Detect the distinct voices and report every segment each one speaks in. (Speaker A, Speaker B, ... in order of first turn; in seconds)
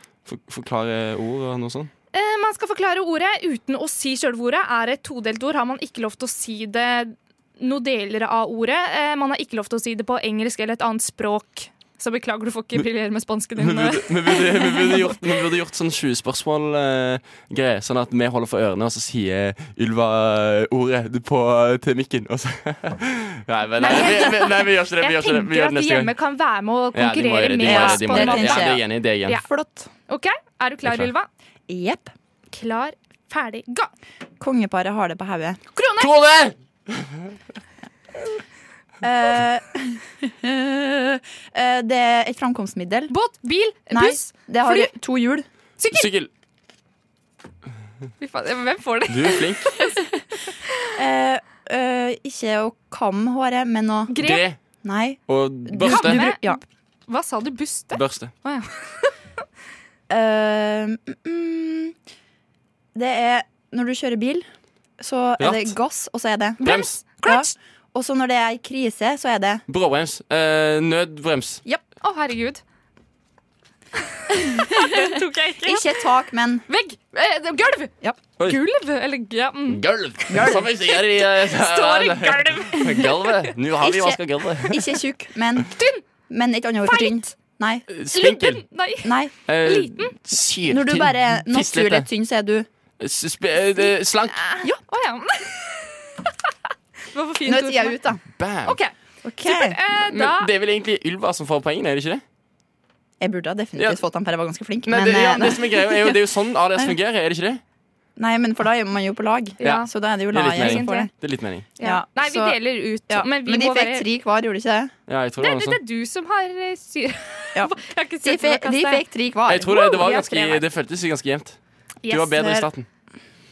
Speaker A: 0.2-1.9, 13.6-26.1, 26.9-29.4, 30.8-31.1, 36.0-37.3, 45.9-46.3, 49.1-49.8, 54.2-54.6, 55.3-56.3, 57.9-58.3, 65.4-65.7, 66.6-67.0, 69.7-71.6, 79.7-84.9, 87.9-88.6, 89.5-92.1, 93.0-94.5, 98.4-98.8, 100.1-102.2, 104.8-107.6, 109.6-111.7, 115.1-115.8, 119.5-122.8
Speaker B: 2.1-15.3, 23.8-29.5, 30.1-31.3, 32.5-33.9, 35.7-36.1, 43.1-44.9, 45.8-46.1, 48.2-50.0, 54.1-54.4, 55.8-59.1, 66.6-67.5, 72.0-72.6, 74.2-76.0, 76.7-79.8, 80.4-83.5, 85.7-86.0, 86.8-87.3, 88.1-90.1, 94.3-96.5, 97.1-98.0, 98.7-100.5, 109.6-109.9, 110.5-111.1, 111.8-114.1, 115.4-119.0, 119.6-120.6, 122.0-122.7
Speaker C: 27.6-29.9, 31.7-32.1, 34.4-35.6, 39.0-43.1, 43.9-45.4, 50.9-54.1, 54.8-56.6, 60.1-62.0, 62.9-64.5, 65.0-66.6, 67.2-69.6, 74.5-76.6, 80.3-80.7, 83.8-85.7, 86.3-87.8, 89.0-89.3, 90.7-92.7, 97.4-98.2, 99.2-99.8, 103.2-106.2, 108.2-111.1, 111.8-114.9, 117.5-119.9